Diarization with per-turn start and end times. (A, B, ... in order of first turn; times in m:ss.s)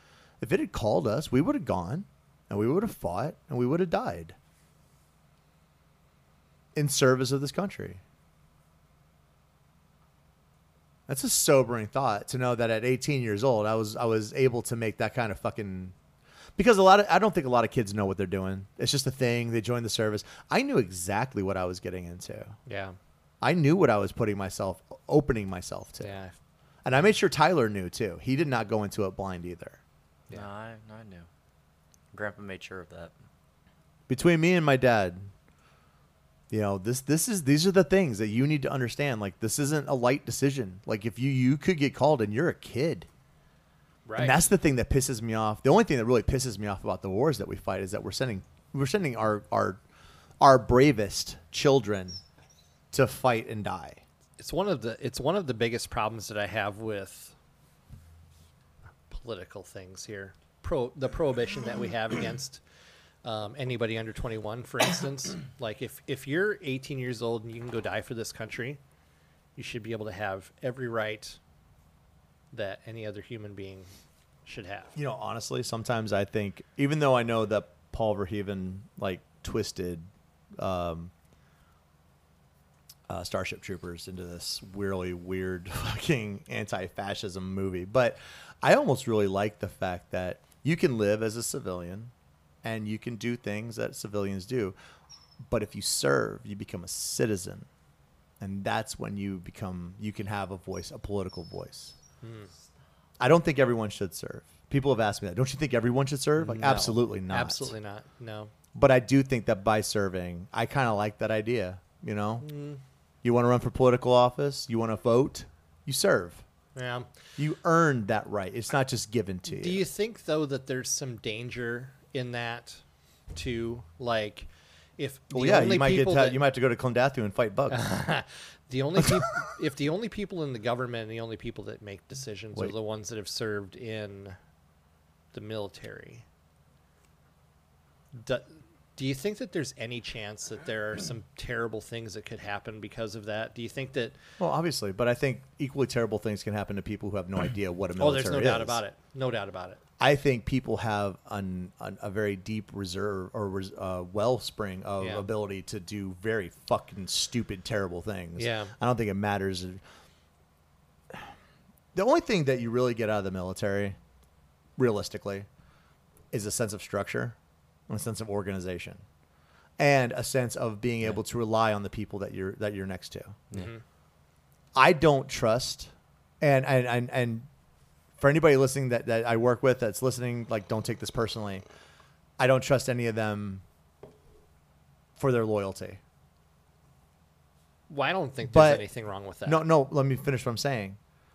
0:00.4-0:04.4 A
0:06.8-0:08.0 A
0:11.1-0:15.9 A
0:16.6-0:22.6 A
0:22.7-0:23.0 B
0:23.4-0:26.2 A
0:26.0-0:26.3 B
0:26.8-0:29.8 A
0:30.3-0:31.3 C
0:32.1-0:33.1 C
0:34.1-0:35.3 A
0:36.5-0:43.1 A
0:44.1-0:44.4 B
0:44.2-0:49.8 A
0:50.4-0:52.2 A
0:52.9-0:54.0 A
0:54.4-0:57.3 B
0:59.1-1:02.6 B
1:03.2-1:08.8 B
1:09.6-1:11.4 B
1:12.5-1:13.9 B
1:14.5-1:15.0 B
1:15.0-1:21.1 A
1:23.1-1:32.1 A
1:32.6-1:34.8 A
1:35.4-1:37.7 A
1:38.4-1:42.0 A
1:42.2-1:42.5 B
1:43.2-1:47.7 A
1:46.4-1:48.5 B
1:48.7-1:52.5 A
1:52.4-1:52.8 B
1:53.2-1:56.4 A
1:56.8-1:57.1 B
1:57.4-1:59.9 A
1:59.5-2:02.8 B
2:03.3-2:06.4 B
2:05.3-2:07.8 A
2:07.7-2:14.4 B
2:15.3-2:16.2 B
2:18.1-2:24.2 B
2:24.4-2:28.8 A
2:28.0-2:29.8 B
2:30.0-2:39.8 A
2:35.0-2:35.3 B
2:38.4-2:38.7 B
2:41.9-2:44.0 A
2:44.8-2:45.5 A
2:46.3-2:47.4 A
2:47.9-2:49.0 A
2:49.8-2:53.4 A
2:53.5-2:53.8 B
2:54.8-2:57.5 A
2:58.2-3:01.6 A
3:02.4-3:03.6 A
3:05.2-3:06.0 A
3:07.9-3:09.7 B
3:08.5-3:08.9 A
3:09.4-3:11.0 A